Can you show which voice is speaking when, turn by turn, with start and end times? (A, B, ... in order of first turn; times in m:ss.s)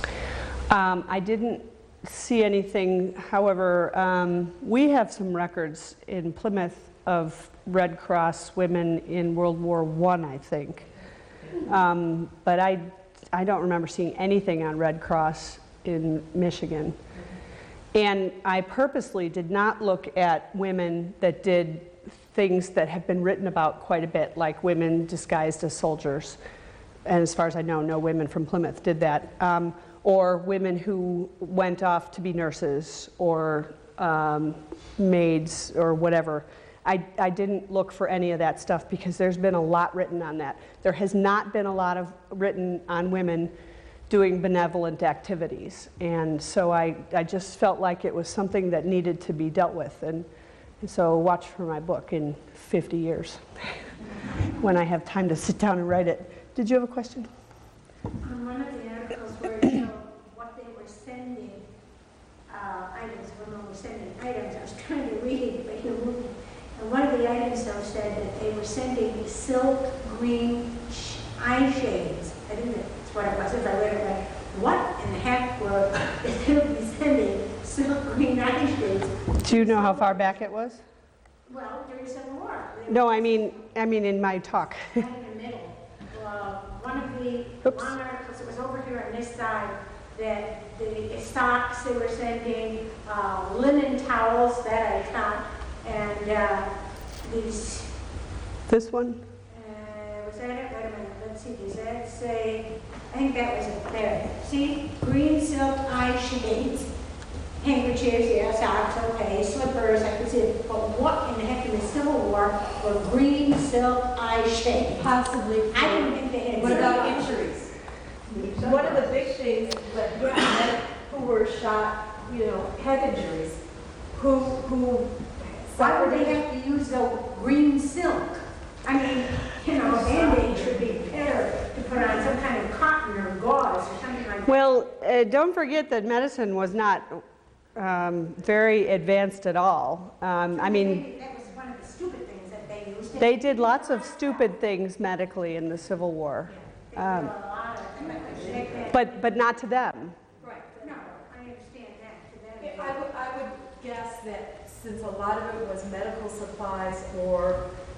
0:00.7-0:10.9 A
0:11.6-0:17.0 A
0:17.9-0:26.4 A
0:27.0-0:43.5 A
0:44.1-0:50.3 A
0:50.8-0:57.3 A
0:58.2-1:01.6 B
1:02.5-1:20.2 B
1:19.4-1:20.8 A
1:21.5-1:23.5 B
1:22.9-1:25.0 A
1:24.8-1:37.9 B
1:27.6-1:27.9 A
1:38.7-1:39.2 A
1:39.5-1:46.9 B
1:47.6-1:55.1 B
1:55.0-1:57.7 C
1:55.7-1:57.4 B
1:58.3-1:59.1 A
1:58.3-2:06.4 C
2:05.8-2:14.6 B
2:09.8-2:11.2 C
2:14.4-2:17.2 A
2:17.7-2:21.0 A
2:20.5-2:24.5 B
2:23.2-2:27.3 A
2:26.9-2:29.4 B
2:28.2-2:28.9 C
2:28.9-2:30.2 A
2:30.4-2:30.9 C
2:30.7-2:33.0 B
2:32.6-2:37.6 C